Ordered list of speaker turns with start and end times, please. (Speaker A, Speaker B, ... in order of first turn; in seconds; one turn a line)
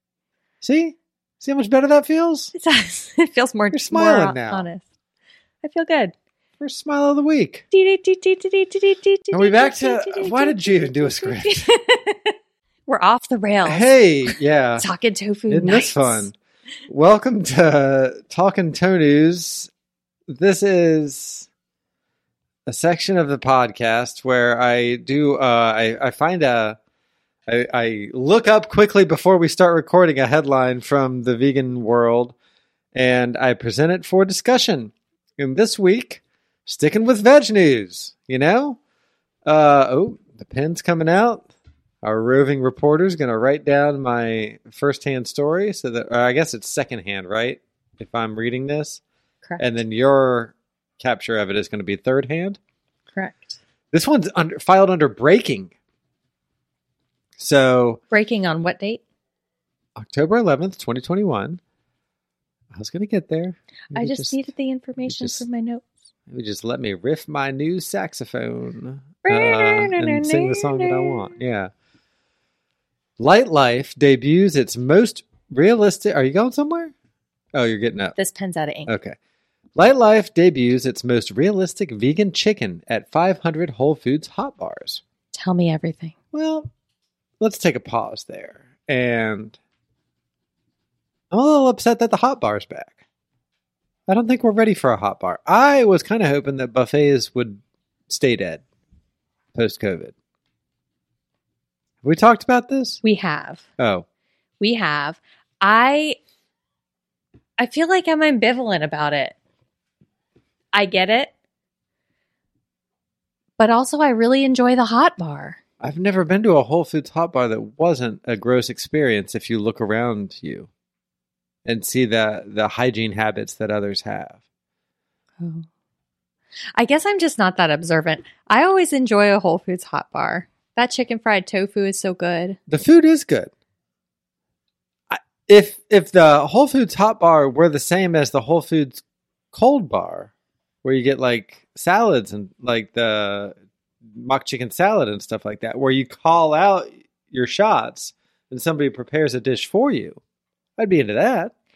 Speaker A: 0.6-2.5
Speaker B: 2.5-4.8
Speaker A: 3.7-4.7
Speaker B: 5.6-6.1
Speaker A: 6.6-7.6
Speaker B: 7.7-12.3
Speaker A: 9.3-11.7
Speaker B: 12.9-16.3
Speaker A: 13.6-14.8
Speaker A: 15.5-16.3
Speaker A: 16.9-19.7
Speaker A: 20.3-21.5
Speaker A: 22.6-26.8
Speaker A: 27.5-32.3
Speaker A: 32.9-38.8
Speaker A: 39.4-41.5
Speaker A: 42.0-49.0
Speaker A: 49.6-52.6
Speaker B: 53.1-53.6
Speaker A: 53.9-55.7
Speaker A: 57.4-58.0
Speaker B: 58.1-59.0
Speaker A: 60.0-61.6
Speaker A: 62.7-64.5
Speaker B: 63.9-65.8
Speaker A: 65.0-65.4
Speaker A: 66.3-71.7
Speaker B: 69.2-71.3
Speaker A: 73.2-76.9
Speaker A: 77.5-78.2
Speaker B: 78.2-78.9
Speaker A: 78.9-79.2
Speaker A: 79.8-85.0
Speaker B: 85.3-86.1
Speaker A: 86.3-86.7
Speaker A: 87.4-89.6
Speaker A: 91.3-93.0
Speaker A: 94.1-98.6
Speaker A: 99.5-100.1
Speaker A: 102.0-103.0
Speaker B: 103.0-103.6
Speaker A: 103.8-104.0
Speaker B: 104.6-106.2
Speaker B: 107.6-109.3
Speaker B: 110.7-111.3
Speaker B: 113.6-115.6
Speaker A: 115.8-120.7
Speaker A: 121.6-124.4
Speaker B: 125.4-125.7
Speaker B: 126.8-132.6
Speaker A: 132.7-133.5
Speaker A: 135.1-140.3
Speaker A: 140.8-143.5
Speaker A: 144.1-150.2
Speaker A: 150.8-151.5